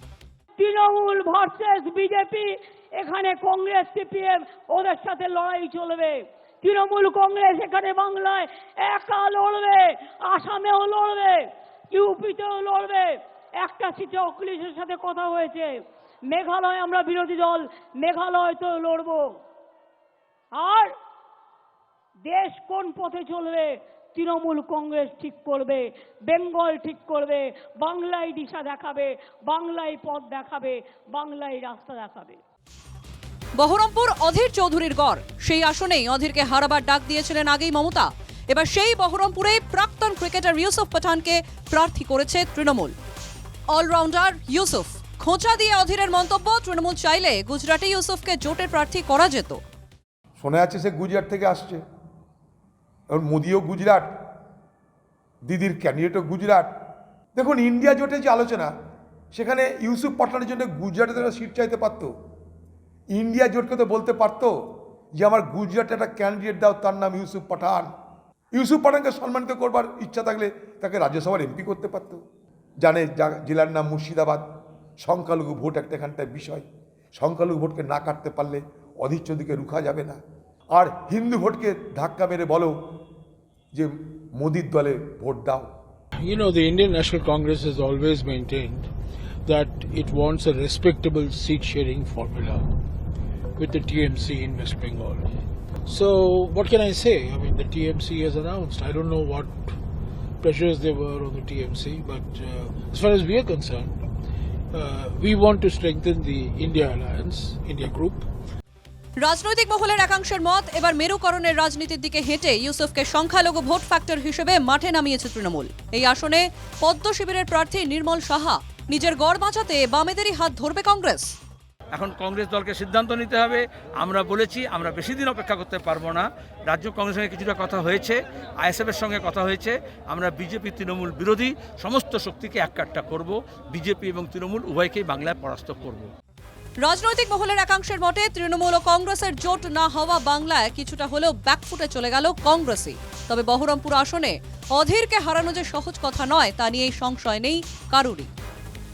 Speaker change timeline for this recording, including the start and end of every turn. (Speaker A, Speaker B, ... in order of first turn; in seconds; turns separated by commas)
Speaker A: 0.6-15.7, Speaker A: 16.3-19.3, Speaker A: 20.6-20.9, Speaker A: 22.3-32.4, Speaker B: 33.6-43.0, Speaker B: 43.7-49.6, Speaker C: 50.4-51.8, Speaker C: 53.1-54.1, Speaker C: 55.5-56.7, Speaker C: 57.4-58.7, Speaker C: 59.3-62.1, Speaker C: 63.1-64.5, Speaker C: 65.2-67.9, Speaker C: 68.5-72.2, Speaker C: 72.8-74.5, Speaker C: 75.0-80.2, Speaker C: 80.7-82.8, Speaker C: 83.7-85.7, Speaker D: 86.2-88.9, Speaker D: 89.5-92.7, Speaker D: 93.6-95.3, Speaker D: 95.9-99.7, Speaker D: 100.4-104.0, Speaker D: 104.7-108.3, Speaker B: 109.2-121.3, Speaker E: 121.9-136.1, Speaker B: 136.8-148.3